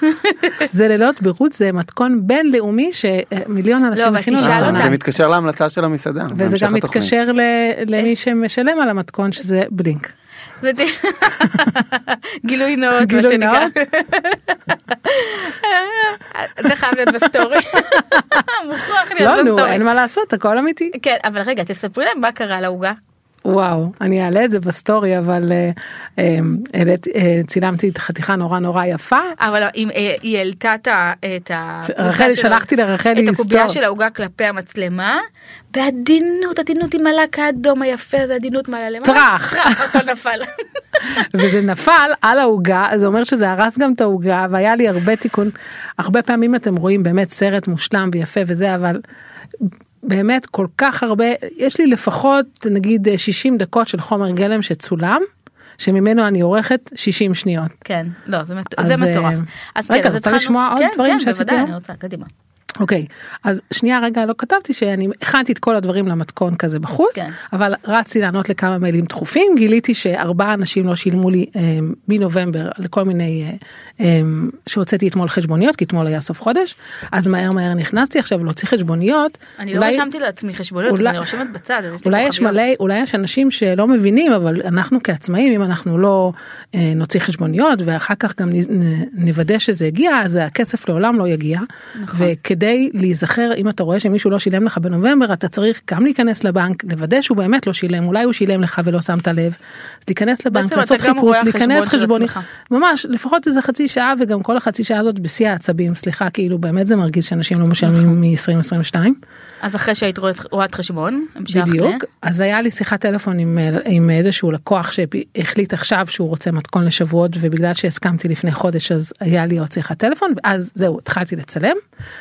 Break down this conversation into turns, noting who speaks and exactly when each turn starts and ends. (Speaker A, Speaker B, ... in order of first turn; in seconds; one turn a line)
Speaker A: 0.2-0.6
Speaker B: 0.7-5.0
Speaker A: 4.0-5.0
Speaker C: 4.4-7.2
Speaker B: 6.3-10.1
Speaker A: 10.6-19.8
Speaker B: 13.0-13.7
Speaker B: 17.8-18.4
Speaker B: 19.2-20.9
Speaker A: 20.9-23.0
Speaker B: 23.4-29.4
Speaker A: 29.4-35.2
Speaker B: 31.9-33.8
Speaker A: 35.7-41.3
Speaker B: 39.0-40.0
Speaker B: 41.1-49.0
Speaker B: 49.6-55.2
Speaker B: 55.8-57.7
Speaker A: 57.9-62.3
Speaker B: 58.8-61.7
Speaker B: 62.8-80.1
Speaker A: 79.6-82.6
Speaker B: 80.9-81.4
Speaker B: 82.0-109.2
Speaker A: 92.0-92.3
Speaker A: 100.5-102.5
Speaker A: 107.8-108.1
Speaker A: 109.6-112.0
Speaker B: 111.5-121.8